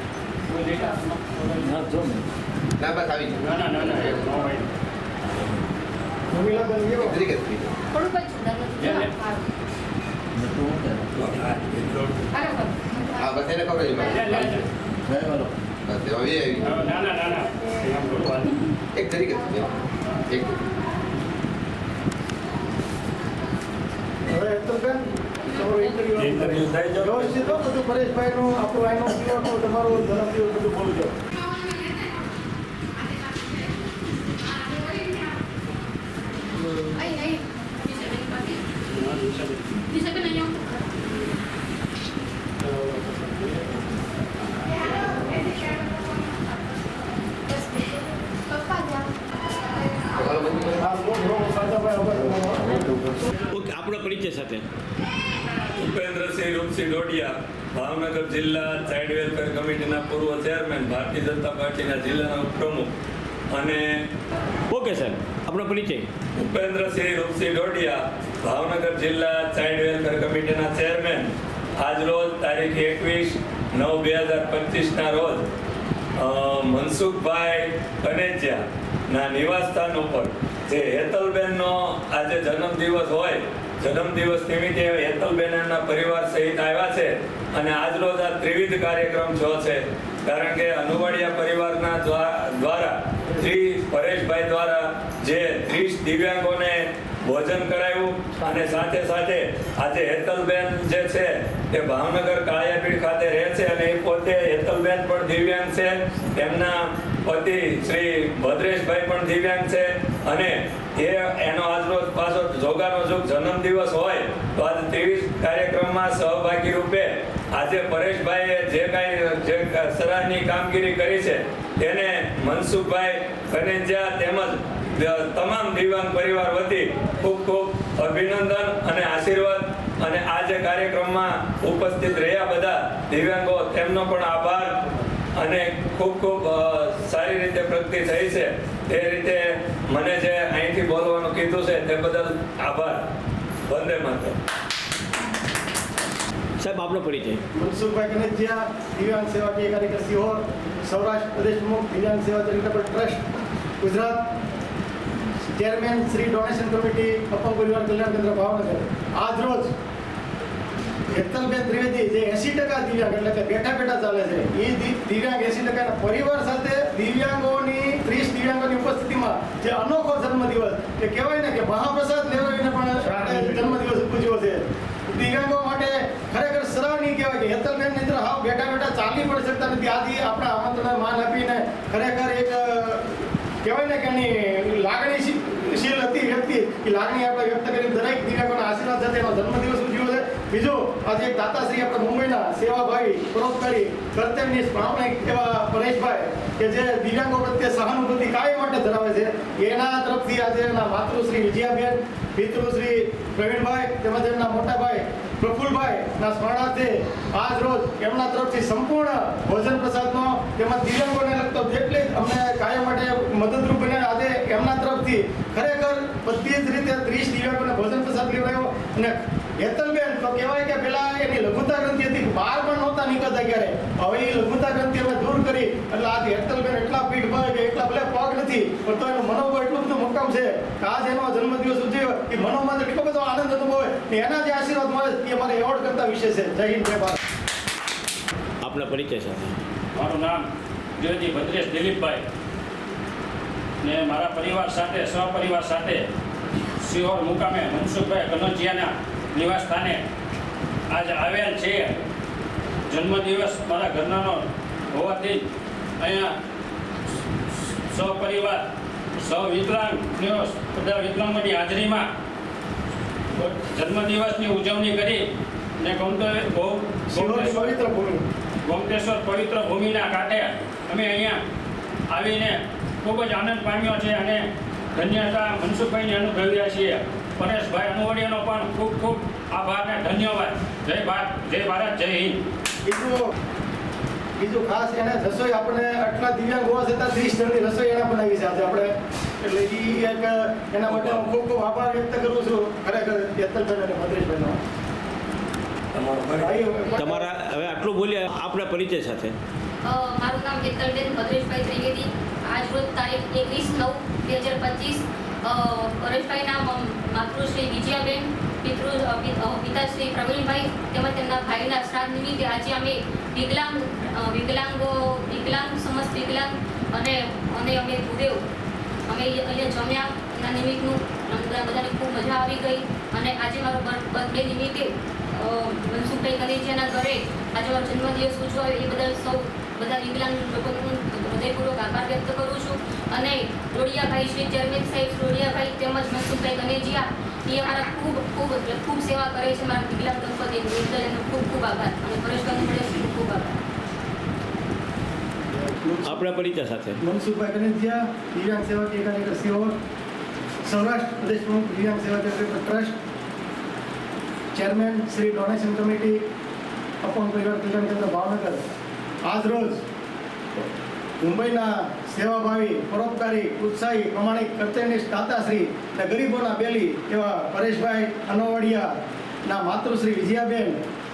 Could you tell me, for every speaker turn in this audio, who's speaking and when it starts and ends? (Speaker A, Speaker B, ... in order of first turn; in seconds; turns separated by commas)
Speaker A: 0.5-2.0, Speaker B: 2.8-3.4, Speaker A: 3.4-4.7, Speaker C: 6.3-7.2, Speaker B: 7.0-7.7, Speaker D: 7.9-9.4, Speaker A: 8.8-9.1, Speaker B: 11.2-11.5, Speaker D: 12.3-12.9, Speaker B: 13.2-14.5, Speaker A: 14.0-14.7, Speaker B: 15.8-16.7, Speaker A: 16.6-18.6, Speaker B: 18.9-19.7, Speaker B: 20.3-20.6, Speaker C: 24.2-31.1, Speaker E: 26.2-27.5, Speaker D: 36.9-38.6, Speaker A: 38.9-39.7, Speaker D: 39.9-40.6, Speaker B: 50.2-50.7, Speaker C: 50.8-52.9, Speaker F: 53.5-54.6, Speaker E: 55.7-62.9, Speaker E: 63.5-63.9, Speaker F: 64.7-66.1, Speaker E: 66.3-75.4, Speaker E: 76.2-134.8, Speaker E: 135.4-143.0, Speaker E: 143.7-144.3, Speaker F: 146.6-147.4, Speaker C: 147.5-153.2, Speaker C: 153.8-154.2, Speaker C: 155.5-159.7, Speaker C: 161.1-237.2, Speaker F: 238.6-239.6, Speaker A: 239.9-240.4, Speaker A: 241.0-242.2, Speaker A: 243.8-246.1, Speaker A: 246.8-250.0, Speaker A: 250.9-252.1, Speaker A: 252.9-255.4, Speaker A: 256.0-256.3, Speaker A: 257.5-258.6, Speaker A: 259.2-262.1, Speaker A: 263.3-265.3, Speaker A: 265.8-267.8, Speaker C: 267.1-268.2, Speaker A: 268.6-271.4, Speaker A: 272.1-282.4, Speaker C: 282.8-283.2, Speaker C: 284.4-294.6, Speaker E: 295.9-296.5, Speaker C: 296.4-297.3, Speaker F: 297.0-299.3, Speaker D: 299.8-318.4, Speaker D: 319.1-343.6, Speaker C: 345.5-346.4, Speaker F: 346.0-347.0, Speaker C: 347.0-349.7, Speaker C: 350.6-352.9, Speaker C: 354.5-356.2, Speaker C: 357.0-358.6, Speaker C: 359.2-359.8, Speaker C: 361.2-368.9, Speaker C: 369.4-370.8